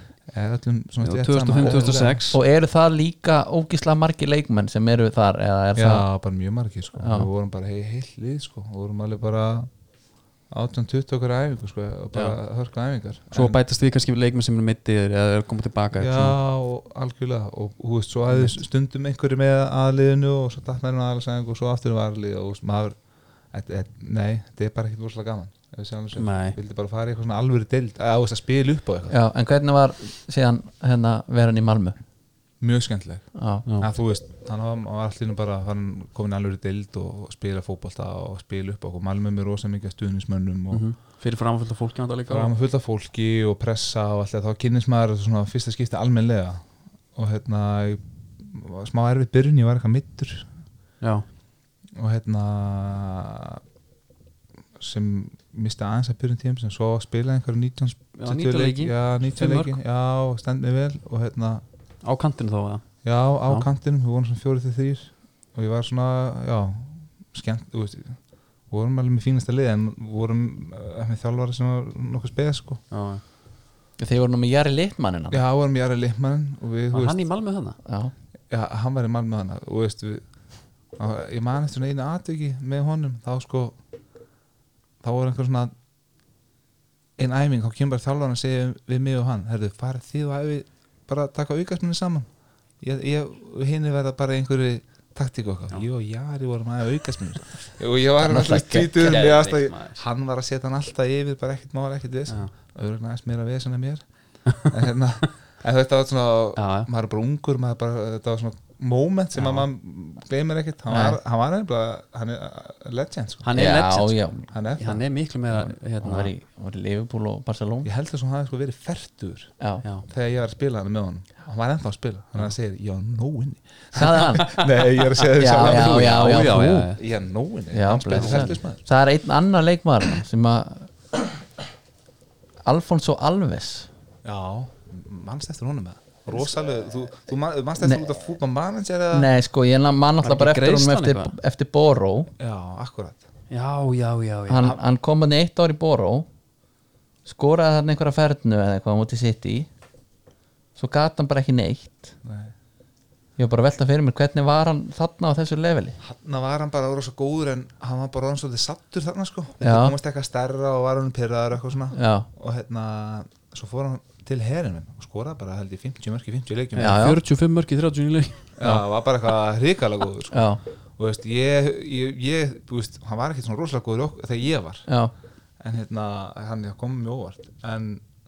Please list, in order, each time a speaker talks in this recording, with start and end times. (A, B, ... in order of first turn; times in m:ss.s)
0:00.3-0:02.3 A
0:01.0-0:02.4 B
0:01.6-0:06.0 C
0:05.8-0:09.7 A
0:07.0-0:07.3 C
0:10.5-0:13.6 A
0:13.3-0:16.4 B
0:15.9-0:23.0 A
0:18.3-0:18.6 B
0:23.5-0:29.1 A
0:26.1-0:26.6 B
0:29.1-0:32.0 C
0:32.6-0:40.8 A
0:33.4-0:33.6 C
0:40.7-0:42.5 B
0:42.3-0:50.5 A
0:52.0-0:53.6 A
0:54.8-1:01.6 A
0:58.2-0:59.7 B
1:02.0-1:02.8 B
1:03.0-1:12.8 A
1:12.9-1:13.2 B
1:14.0-1:15.4 C
1:15.3-1:17.2 A
1:16.9-1:17.8 B
1:17.8-1:18.1 C
1:18.5-1:20.2 A
1:21.0-1:23.8 A
1:25.0-1:25.7 A
1:27.2-1:32.3 A
1:32.8-1:44.0 A
1:38.2-1:40.0 B
1:44.6-1:53.5 A
1:46.6-1:46.9 B
1:49.4-1:49.6 B
1:50.9-1:51.2 C
1:53.4-1:56.3 B
1:53.5-1:54.4 C
1:54.5-1:55.7 A
1:56.0-1:57.9 C
1:57.8-1:59.5 A
2:00.1-2:08.8 A
2:03.9-2:04.6 C
2:05.3-2:06.9 C
2:05.7-2:07.0 B
2:07.7-2:10.9 C
2:08.1-2:08.5 B
2:12.6-2:13.9 C
2:14.2-2:19.3 A
2:19.1-2:22.3 C
2:20.2-2:21.3 B
2:22.4-2:23.2 A
2:23.5-2:24.7 B
2:24.5-2:26.3 C
2:27.2-2:29.7 C
2:30.8-2:32.1 C
2:32.2-2:32.5 A
2:33.4-2:36.0 C
2:36.0-2:47.0 A
2:39.6-2:40.0 C
2:41.9-2:42.3 C
2:46.7-2:48.5 B
2:46.8-2:47.2 C
2:48.6-2:54.9 A
2:50.3-2:50.6 C
2:54.9-2:55.1 C
2:55.6-2:58.0 A